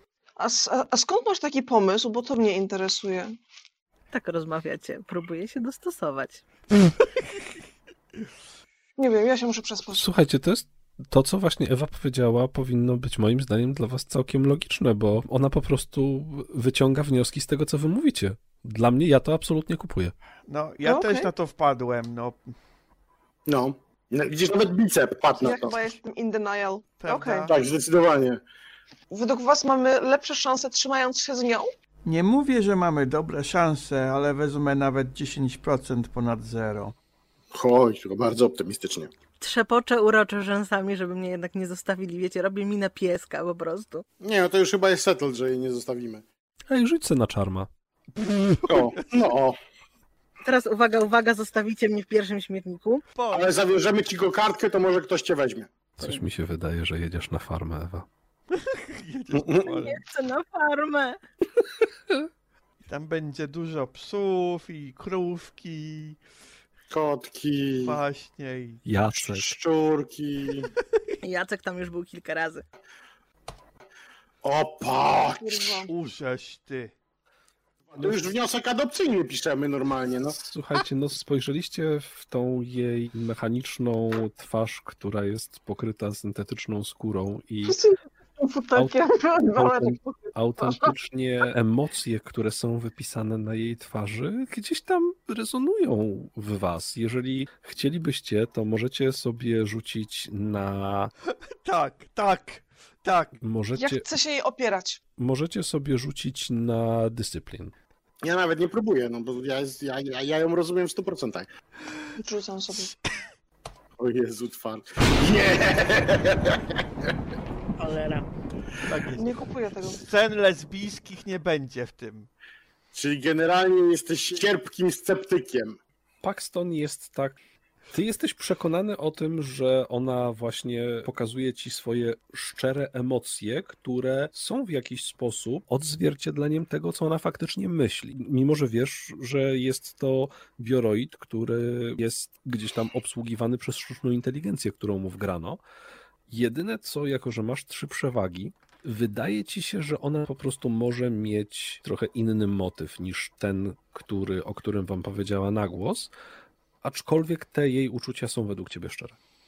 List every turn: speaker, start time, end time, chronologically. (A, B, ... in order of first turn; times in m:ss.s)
0:00.4-0:03.3 A
0:04.1-0:06.4 B
0:09.0-0:10.0 A
0:09.9-0:20.2 C
0:20.5-0:22.5 D
0:20.8-0:21.3 A
0:23.5-0:26.0 E
0:25.4-0:27.5 A
0:27.0-0:27.5 D
0:27.5-0:28.4 E
0:29.1-0:31.7 A
0:32.0-0:36.9 D
0:37.5-0:39.1 E
0:39.4-0:44.0 B
0:44.2-0:46.2 E
0:46.7-0:47.7 C
0:48.3-0:49.1 D
0:48.6-0:49.6 E
0:50.4-0:53.0 B
0:53.2-0:53.6 D
0:53.3-0:55.7 E
0:56.0-0:58.1 C
0:58.5-1:00.0 D
0:59.3-0:59.8 E
0:59.8-1:01.2 B
1:02.9-1:06.2 D
1:06.9-1:08.0 E
1:07.8-1:08.8 D
1:08.8-1:09.5 C
1:09.2-1:10.7 E
1:11.2-1:12.6 B
1:14.4-1:15.9 E
1:15.4-1:15.9 A
1:15.9-1:16.9 D
1:17.9-1:20.4 E
1:18.0-1:18.3 C
1:20.4-1:27.8 C
1:27.6-1:30.9 A
1:28.7-1:29.0 C
1:29.5-1:41.1 C
1:41.6-1:43.4 D
1:43.4-1:44.1 C
1:43.8-1:45.0 A
1:45.2-1:47.7 C
1:48.2-1:51.5 E
1:52.2-1:52.9 A
1:54.0-1:57.1 E
1:57.8-1:58.3 B
1:58.8-2:02.3 D
1:59.2-2:00.0 A
2:02.9-2:05.8 E
2:06.2-2:07.4 C
2:07.9-2:25.6 C
2:26.3-2:36.1 C
2:36.8-2:39.2 C